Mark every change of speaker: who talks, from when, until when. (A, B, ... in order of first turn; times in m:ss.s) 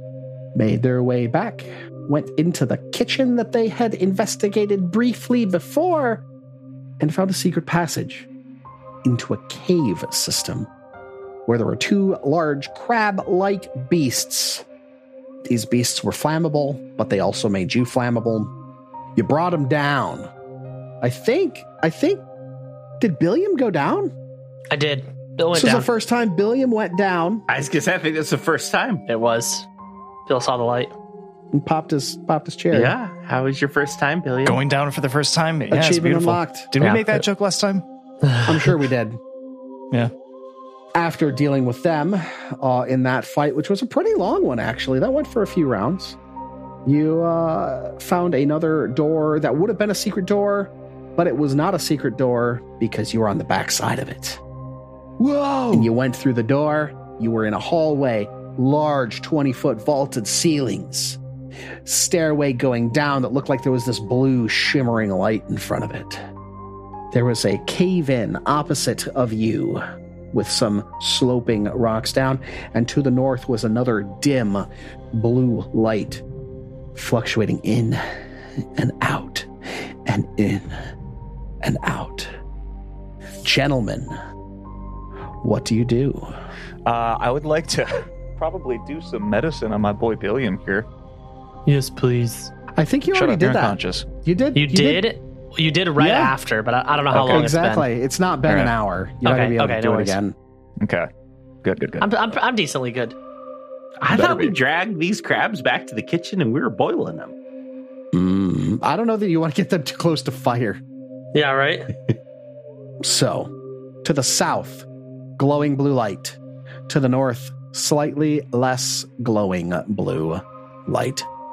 0:00.6-0:06.2 A
0:07.0-0:08.3 A
0:09.0-0:10.7 A
0:11.5-0:14.6 A
0:15.5-0:18.5 A
0:19.2-0:20.3 A
0:21.0-0:22.2 A
0:23.0-0:24.1 A
0:24.7-0:25.9 B
0:25.5-0:27.4 A
0:27.5-0:29.0 C
0:29.1-0:29.7 B
0:30.3-0:30.9 B
0:31.5-0:33.0 A
0:32.7-0:34.6 C
0:34.4-0:37.8 D
0:35.7-0:36.7 A
0:36.8-0:37.2 B
0:38.2-0:38.8 B
0:38.5-0:39.2 A
0:41.0-0:46.2 A
0:46.8-0:54.4 A
0:55.2-1:01.2 A
1:01.8-1:06.2 A
1:07.1-1:16.2 A
1:17.0-1:18.0 A
1:18.8-1:20.8 A
1:21.6-1:22.3 A
1:23.4-1:24.1 A
1:25.4-1:26.3 A
1:26.9-1:30.9 E
1:31.7-1:32.5 B
1:32.8-1:35.0 A
1:33.1-1:34.1 E
1:34.6-1:37.9 B
1:36.0-1:36.3 A
1:37.1-1:37.4 E
1:37.2-1:40.4 A
1:38.5-1:38.7 E
1:39.2-1:40.2 B
1:40.8-1:41.1 E
1:41.6-1:42.0 E
1:42.0-1:43.2 B
1:44.0-1:47.3 C
1:44.1-1:44.5 E
1:48.1-1:50.8 A
1:51.3-1:51.9 B
1:53.0-1:53.5 A
1:54.0-1:54.9 A
1:55.4-2:01.3 A